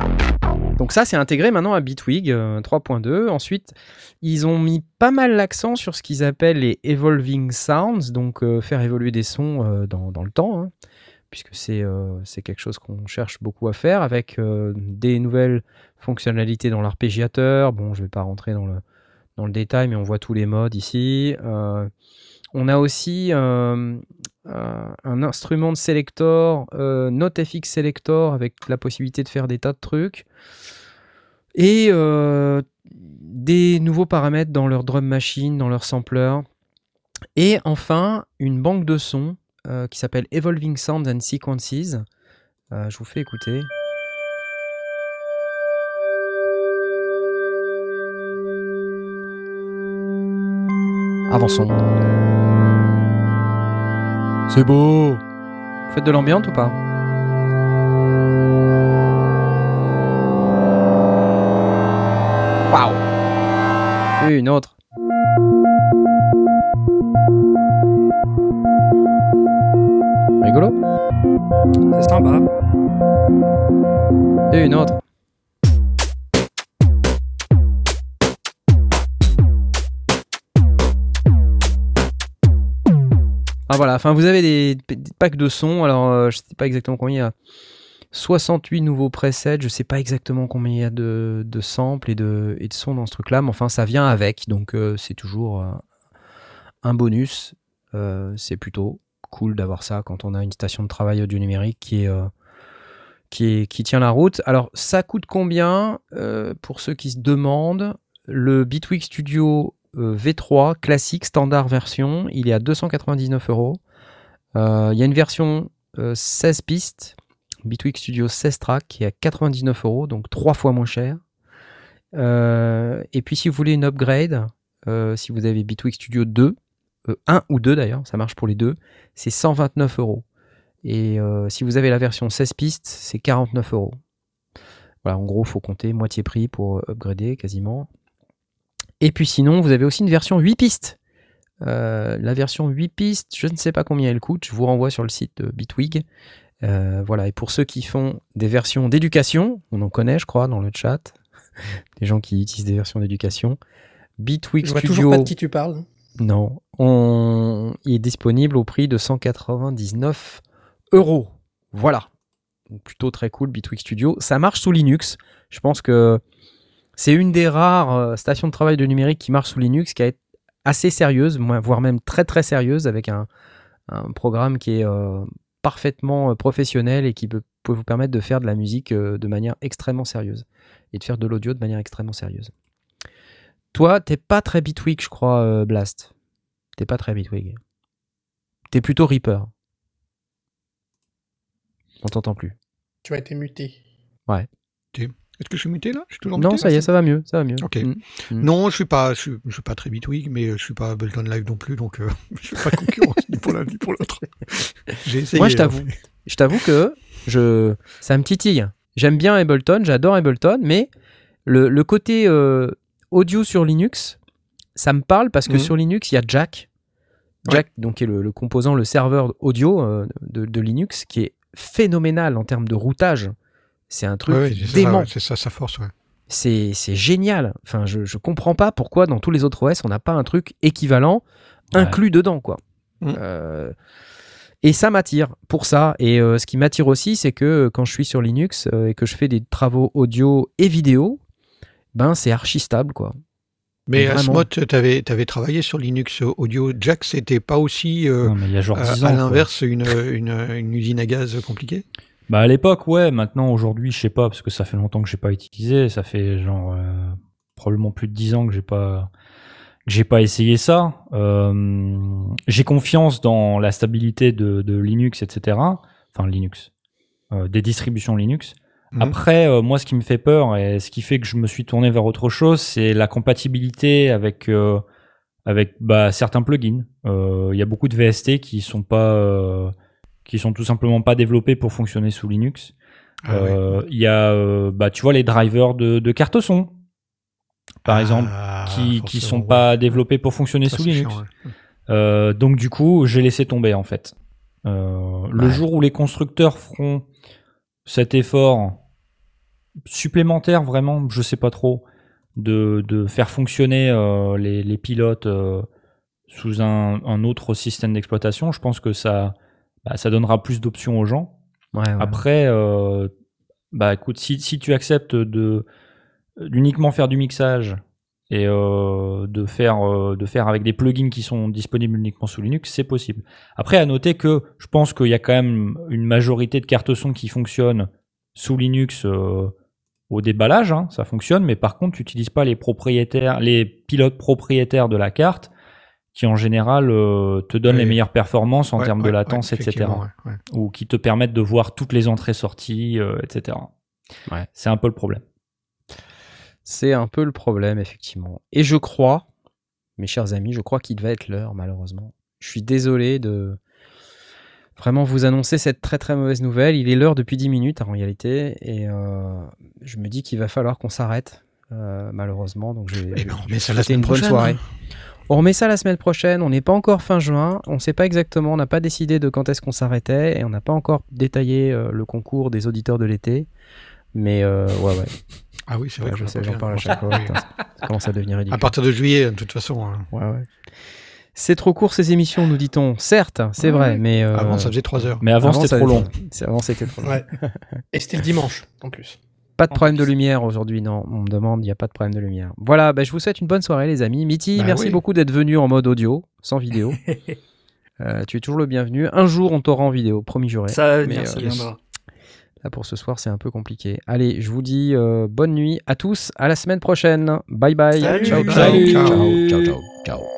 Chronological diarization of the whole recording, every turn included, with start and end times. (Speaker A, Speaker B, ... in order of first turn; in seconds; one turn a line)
Speaker A: 0.8-10.7
Speaker A: 11.3-18.8
Speaker A: 19.4-21.9
Speaker A: 22.5-30.3
Speaker A: 31.6-36.5
Speaker A: 37.4-42.0
Speaker A: 42.7-43.7
Speaker A: 51.3-51.9
Speaker A: 54.5-55.2
Speaker A: 55.9-56.8
Speaker A: 62.7-63.0
Speaker A: 64.2-64.8
Speaker A: 70.4-70.8
Speaker B: 71.9-72.5
Speaker A: 74.5-75.0
Speaker A: 83.7-87.3
Speaker A: 88.1-95.8
Speaker A: 96.8-102.3
Speaker A: 103.3-113.8
Speaker A: 114.5-121.2
Speaker A: 122.1-126.6
Speaker A: 127.1-130.2
Speaker A: 130.8-134.0
Speaker A: 135.0-137.9
Speaker A: 139.0-141.0
Speaker A: 141.6-146.0
Speaker A: 146.6-151.2
Speaker A: 152.0-153.6
Speaker A: 154.2-155.3
Speaker C: 154.6-155.9
Speaker A: 156.2-160.4
Speaker A: 160.9-162.1
Speaker A: 162.7-166.2
Speaker A: 167.0-173.3
Speaker A: 173.9-182.5
Speaker A: 183.7-186.1
Speaker A: 186.8-187.6
Speaker A: 188.7-189.5
Speaker A: 192.0-192.6
Speaker C: 193.1-193.8
Speaker D: 194.9-196.9
Speaker A: 196.4-198.5
Speaker D: 197.6-205.9
Speaker A: 205.3-210.9
Speaker A: 211.5-214.2
Speaker A: 214.8-216.7
Speaker A: 217.4-223.3
Speaker A: 223.9-225.1
Speaker D: 224.3-225.9
Speaker A: 226.3-232.6
Speaker A: 233.1-233.7
Speaker A: 234.6-241.2
Speaker A: 241.9-243.2
Speaker D: 243.9-251.8
Speaker A: 244.0-244.5
Speaker E: 248.2-249.5
Speaker E: 252.3-259.1
Speaker E: 259.9-266.7
Speaker E: 267.3-274.8
Speaker E: 275.5-279.7
Speaker E: 280.3-282.7
Speaker D: 283.2-283.8
Speaker E: 283.3-286.7
Speaker D: 287.9-290.0
Speaker E: 287.9-291.2
Speaker D: 290.7-291.3
Speaker E: 291.9-294.1
Speaker E: 294.6-297.1
Speaker E: 297.9-298.8
Speaker E: 299.9-301.8
Speaker E: 302.4-305.7
Speaker E: 306.3-311.4
Speaker A: 311.7-312.2
Speaker E: 312.0-313.1
Speaker E: 313.7-315.6
Speaker E: 316.4-317.8
Speaker E: 318.3-329.5
Speaker E: 330.1-335.5
Speaker E: 336.1-343.7
Speaker D: 337.7-338.0
Speaker D: 338.8-340.4
Speaker E: 344.6-345.2
Speaker A: 346.7-349.3
Speaker A: 350.0-353.6
Speaker A: 354.8-364.6
Speaker D: 363.1-364.6
Speaker A: 365.3-373.5
Speaker A: 374.1-375.2
Speaker D: 375.7-377.4
Speaker A: 376.0-378.8
Speaker D: 378.5-380.1
Speaker A: 380.1-380.5
Speaker A: 381.4-384.8
Speaker D: 383.6-385.2
Speaker E: 385.2-386.1
Speaker A: 385.4-387.8
Speaker C: 387.9-389.2
Speaker A: 389.6-397.0
Speaker B: 389.7-390.1
Speaker D: 394.6-395.0
Speaker B: 396.9-397.4
Speaker A: 398.0-401.6
Speaker B: 400.7-401.8
Speaker D: 401.4-401.7
Speaker A: 402.6-410.3
Speaker B: 408.0-409.8
Speaker D: 408.2-409.3